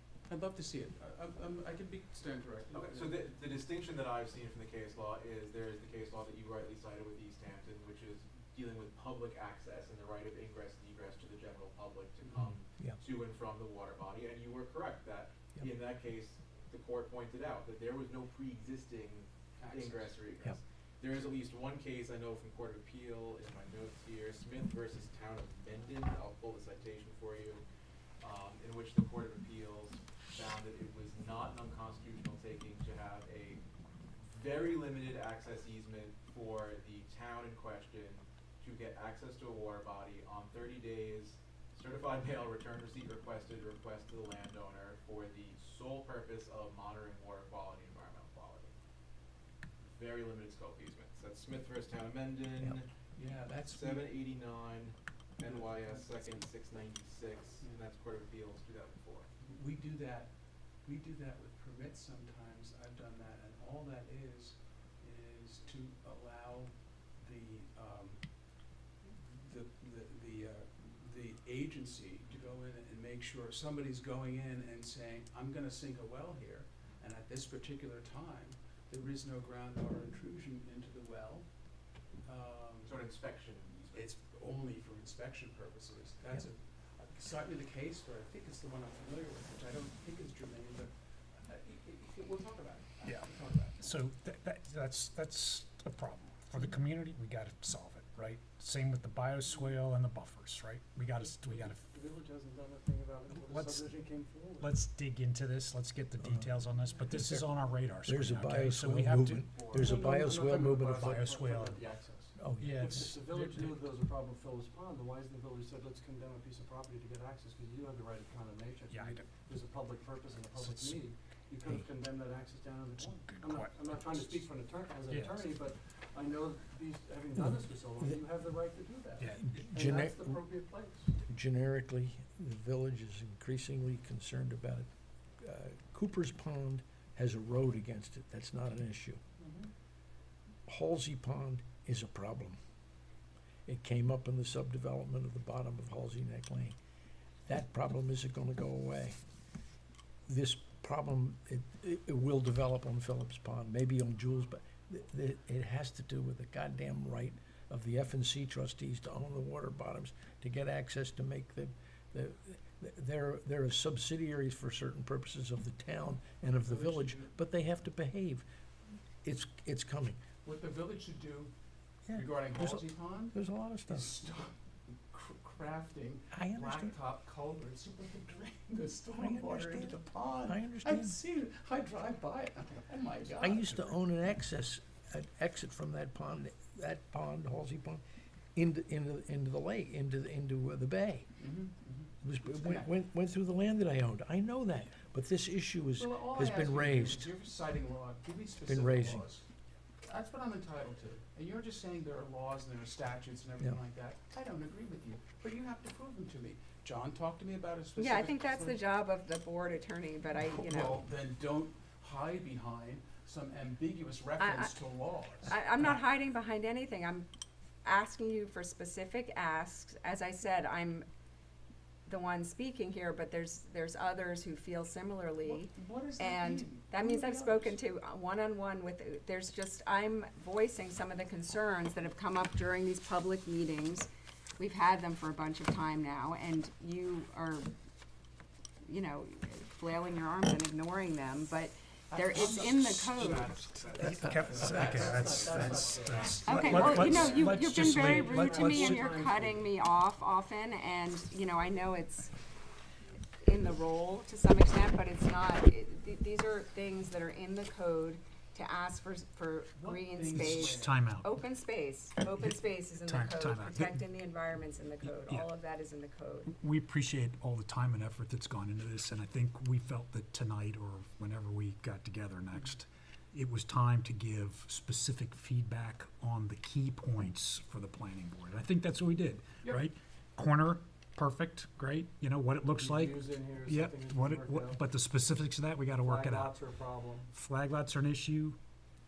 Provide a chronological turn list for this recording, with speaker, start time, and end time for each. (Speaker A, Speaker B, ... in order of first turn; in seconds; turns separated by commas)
Speaker A: 0.3-3.5, Speaker B: 2.7-27.6, Speaker A: 12.2-12.6, Speaker A: 19.6-20.3, Speaker B: 28.2-33.6, Speaker B: 34.2-48.7, Speaker B: 49.8-52.9, Speaker A: 53.2-54.2, Speaker B: 53.6-59.3, Speaker A: 55.4-56.5, Speaker A: 59.4-83.1, Speaker B: 82.8-84.1, Speaker A: 83.9-93.9, Speaker C: 93.8-101.8, Speaker D: 101.4-104.7, Speaker C: 103.3-103.9, Speaker C: 104.6-111.8, Speaker E: 106.2-106.5, Speaker E: 107.1-107.5, Speaker E: 108.1-111.2, Speaker D: 109.8-130.9, Speaker E: 112.4-113.1, Speaker C: 112.6-113.8, Speaker C: 118.9-119.3, Speaker C: 120.5-121.0, Speaker C: 123.0-124.5, Speaker C: 125.1-125.5, Speaker E: 127.4-128.2, Speaker C: 129.2-129.7, Speaker E: 129.4-130.4, Speaker E: 131.3-134.9, Speaker E: 135.4-139.2, Speaker A: 139.4-139.7, Speaker E: 140.7-142.6, Speaker E: 143.7-146.8, Speaker E: 147.5-149.2, Speaker E: 150.3-168.4, Speaker A: 166.6-167.3, Speaker E: 169.2-170.2, Speaker A: 170.4-171.5, Speaker E: 172.1-174.1, Speaker A: 172.1-173.4, Speaker A: 173.9-184.0, Speaker E: 176.3-176.9, Speaker E: 179.2-181.2, Speaker E: 183.4-188.0, Speaker E: 188.6-191.3, Speaker A: 191.4-192.9, Speaker E: 192.2-197.3, Speaker A: 196.0-199.4, Speaker E: 198.7-199.3, Speaker A: 200.0-208.8, Speaker F: 208.0-211.0, Speaker A: 210.3-215.6, Speaker F: 214.4-214.7, Speaker F: 215.4-217.3, Speaker F: 217.8-221.1, Speaker F: 222.1-237.7, Speaker A: 225.4-227.8, Speaker F: 238.8-243.5, Speaker A: 242.1-246.7, Speaker B: 243.2-246.2, Speaker C: 244.0-249.2, Speaker E: 244.1-245.0, Speaker D: 244.9-249.7, Speaker F: 246.4-252.4, Speaker F: 253.4-266.5, Speaker A: 259.8-261.0, Speaker C: 260.4-261.3, Speaker C: 262.4-264.0, Speaker C: 265.0-265.5, Speaker C: 266.5-286.5, Speaker D: 282.8-284.8, Speaker D: 286.0-287.3, Speaker C: 287.3-288.6